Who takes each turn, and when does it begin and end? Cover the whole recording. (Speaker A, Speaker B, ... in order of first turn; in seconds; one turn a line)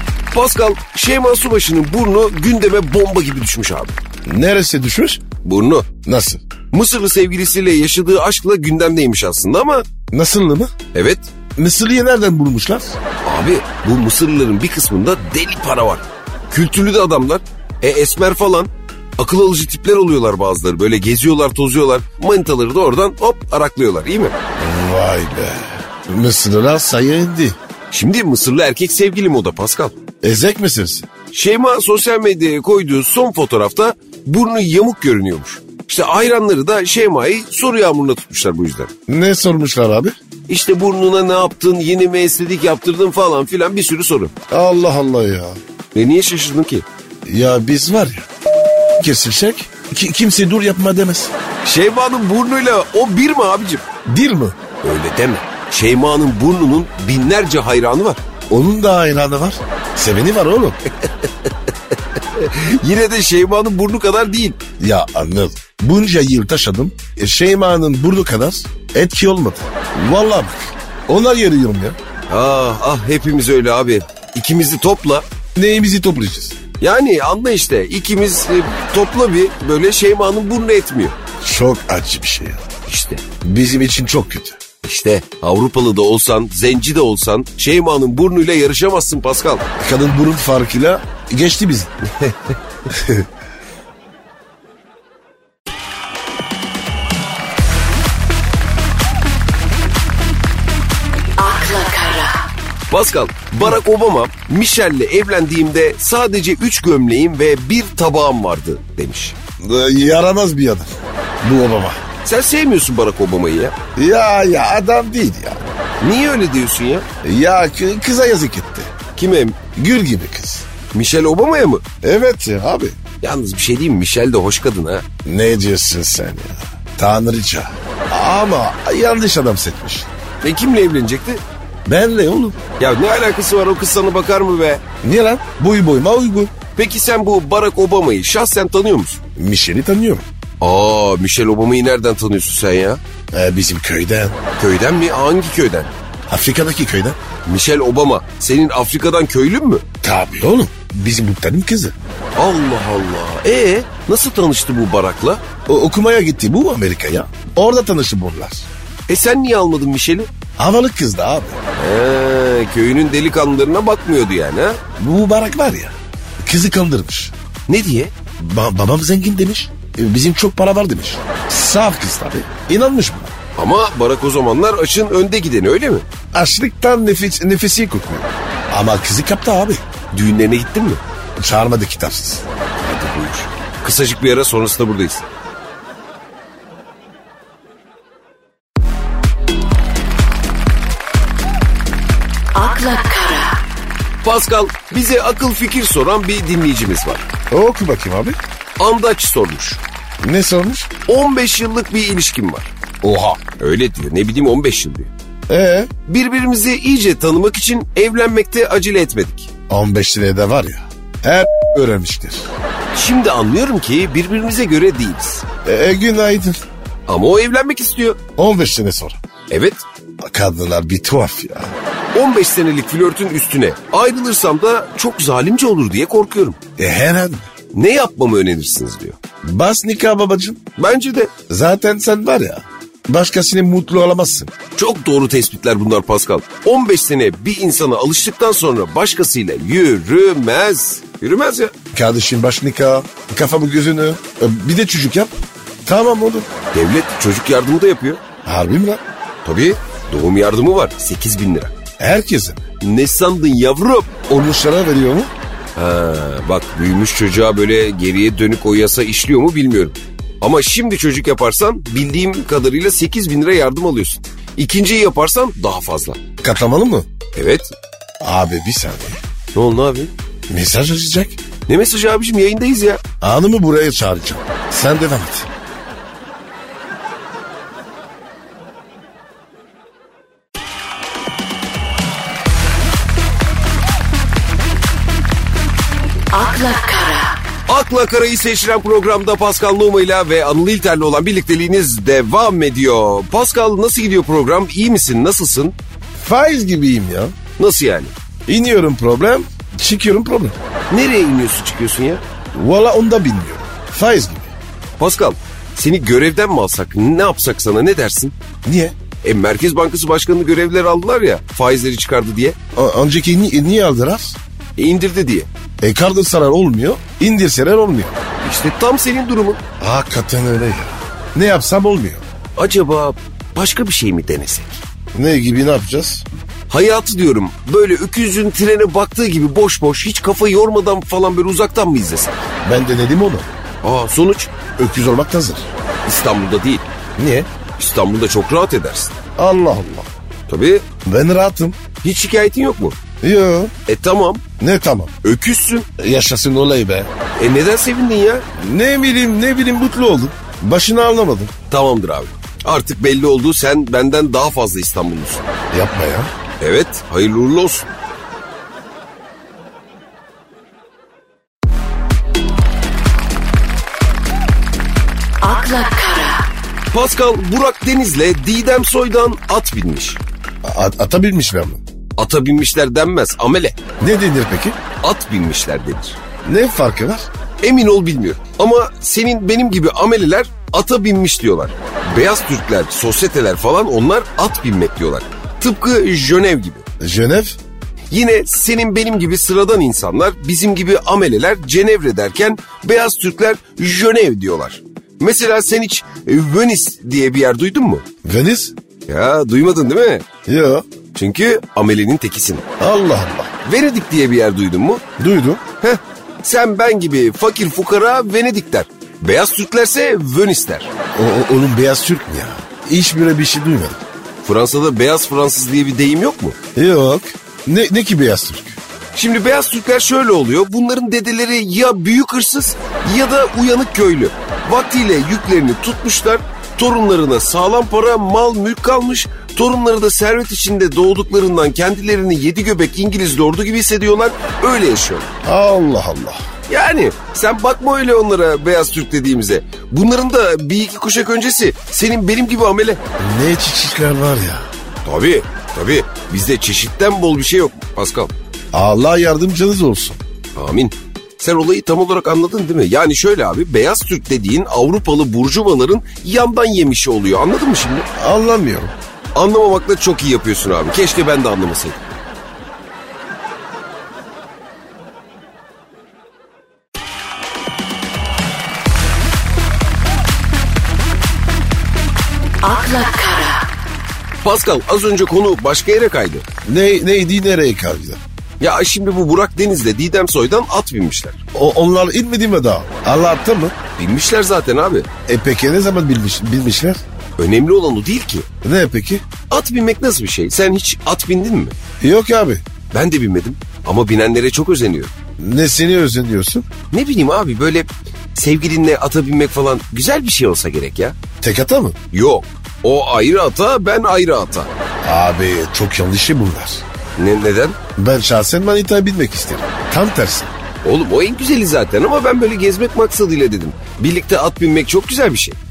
Speaker A: 0.3-4.0
Speaker B: 4.2-5.2
Speaker A: 5.4-5.9
Speaker B: 6.0-6.4
Speaker A: 6.7-9.8
Speaker B: 10.1-10.7
Speaker A: 10.9-11.3
Speaker B: 11.6-13.0
Speaker A: 13.2-24.4
Speaker B: 24.6-27.6
Speaker A: 27.9-29.9
Speaker B: 30.2-31.1
Speaker A: 31.3-38.9
Speaker B: 39.1-40.1
Speaker A: 40.5-44.3
Speaker B: 44.5-45.6
Speaker A: 46.0-46.9
Speaker B: 47.3-48.3
Speaker B: 49.0-51.3
Speaker A: 51.6-53.8
Speaker B: 54.1-54.5
Speaker A: 54.8-58.2
Speaker B: 58.5-60.8
Speaker A: 61.0-64.6
Speaker B: 64.8-72.0
Speaker A: 72.3-75.3
Speaker B: 75.6-76.6
Speaker A: 76.8-81.2
Speaker B: 81.4-82.6
Speaker A: 82.9-83.2
Speaker B: 83.4-84.6
Speaker A: 84.8-89.7
Speaker B: 89.8-91.9
Speaker B: 92.9-93.3
Speaker C: 101.4-102.4
Speaker A: 102.9-109.3
Speaker B: 109.6-110.9
Speaker B: 111.4-112.0
Speaker A: 112.2-113.8
Speaker B: 114.0-115.6
Speaker A: 116.0-117.0
Speaker B: 117.2-118.9
Speaker A: 119.2-119.6
Speaker B: 119.8-120.7
Speaker A: 120.9-121.8
Speaker B: 122.0-123.0
Speaker A: 123.2-125.0
Speaker B: 125.3-130.1
Speaker A: 130.4-131.4
Speaker B: 131.9-132.6
Speaker A: 132.8-134.8
Speaker B: 135.0-136.5
Speaker A: 136.8-139.2
Speaker B: 139.4-140.3
Speaker A: 140.6-143.0
Speaker B: 143.3-144.4
Speaker A: 144.6-146.0
Speaker B: 146.3-147.2
Speaker A: 147.5-149.8
Speaker B: 150.0-151.9
Speaker A: 152.4-155.4
Speaker B: 155.7-158.7
Speaker A: 159.1-160.3
Speaker B: 160.6-161.6
Speaker A: 161.8-164.8
Speaker B: 165.0-167.3
Speaker A: 167.7-168.1
Speaker B: 168.4-173.3
Speaker A: 173.6-176.1
Speaker B: 176.3-179.8
Speaker A: 180.1-181.0
Speaker B: 181.4-182.4
Speaker A: 182.8-185.3
Speaker C: 192.6-193.5
Speaker A: 194.2-197.3
Speaker B: 197.5-198.4
Speaker A: 198.8-199.8
Speaker B: 200.2-200.9
Speaker A: 201.1-202.7
Speaker B: 203.0-203.4
Speaker A: 203.6-205.1
Speaker B: 205.5-205.9
Speaker A: 206.1-209.5
Speaker B: 209.7-212.5
Speaker A: 212.9-215.4
Speaker B: 215.7-216.6
Speaker A: 217.1-218.2
Speaker B: 218.4-219.2
Speaker A: 219.5-219.8
Speaker B: 220.2-221.8
Speaker A: 222.1-226.6
Speaker B: 226.8-227.5
Speaker A: 227.7-229.2
Speaker B: 229.4-230.6
Speaker A: 230.8-231.3
Speaker B: 231.5-234.5
Speaker A: 234.8-241.7
Speaker B: 241.9-245.3
Speaker B: 245.8-246.5
Speaker A: 246.7-248.2
Speaker B: 248.4-249.0
Speaker A: 249.4-251.7
Speaker B: 252.0-252.6
Speaker A: 252.8-254.1
Speaker B: 254.3-255.3
Speaker A: 255.8-266.2
Speaker B: 266.4-267.1
Speaker A: 267.3-267.7
Speaker B: 268.2-269.2
Speaker A: 269.5-270.1
Speaker B: 270.5-271.4
Speaker A: 271.7-273.0
Speaker B: 273.2-275.5
Speaker C: 286.3-287.4
Speaker A: 287.7-295.8
Speaker B: 296.2-297.3
Speaker A: 297.6-298.1
Speaker B: 298.5-300.6
Speaker A: 300.9-302.2
Speaker B: 302.5-304.6
Speaker A: 305.0-308.4
Speaker B: 308.6-308.9
Speaker A: 309.2-312.6
Speaker B: 312.8-314.4
Speaker A: 314.8-315.5
Speaker B: 315.8-318.1
Speaker A: 318.4-319.6
Speaker B: 319.8-322.2
Speaker A: 322.6-324.8
Speaker B: 325.1-326.3
Speaker A: 326.7-332.5
Speaker B: 332.6-333.5
Speaker A: 333.8-334.5
Speaker B: 334.8-335.7
Speaker A: 336.1-336.9
Speaker B: 337.2-337.5
Speaker A: 337.8-339.2
Speaker B: 339.4-340.1
Speaker A: 340.5-340.9
Speaker B: 341.1-341.8
Speaker A: 342.0-343.0
Speaker B: 343.2-343.7
Speaker A: 343.9-344.4
Speaker B: 344.6-345.1
Speaker A: 345.2-345.9
Speaker B: 346.0-347.1
Speaker A: 347.4-348.4
Speaker B: 348.6-351.5
Speaker A: 351.7-355.4
Speaker B: 355.7-356.3
Speaker A: 356.6-357.9
Speaker C: 365.4-366.4
Speaker A: 366.9-370.2
Speaker B: 370.6-371.8
Speaker A: 372.2-373.8
Speaker B: 374.0-374.8
Speaker A: 375.0-376.2
Speaker B: 376.4-377.3
Speaker A: 377.6-386.8
Speaker B: 387.0-387.6
Speaker A: 388.1-398.0
Speaker B: 398.2-398.7
Speaker A: 399.1-400.2
Speaker B: 400.5-400.8
Speaker A: 401.1-402.6
Speaker B: 402.8-403.5
Speaker A: 403.6-405.0
Speaker B: 405.2-405.6
Speaker A: 405.8-410.9
Speaker B: 411.1-414.0
Speaker A: 414.4-416.6
Speaker B: 416.8-418.8
Speaker A: 419.1-435.3
Speaker B: 435.4-436.4
Speaker A: 436.7-443.0
Speaker B: 443.2-444.7
Speaker A: 445.1-448.3
Speaker B: 448.7-450.2
Speaker A: 450.6-458.1
Speaker B: 458.2-458.9
Speaker A: 459.4-462.0
Speaker C: 472.7-473.6
Speaker A: 474.4-476.4
Speaker B: 476.6-478.2
Speaker A: 478.6-481.4
Speaker B: 481.5-483.8
Speaker A: 484.0-485.1
Speaker B: 485.3-487.0
Speaker A: 487.4-488.5
Speaker B: 488.6-489.2
Speaker A: 489.5-491.8
Speaker B: 492.0-492.6
Speaker A: 492.9-495.1
Speaker B: 495.4-496.7
Speaker A: 496.9-501.2
Speaker B: 501.4-502.0
Speaker A: 502.1-504.7
Speaker B: 505.0-506.8
Speaker A: 507.2-507.8
Speaker B: 508.0-510.5
Speaker A: 510.8-515.6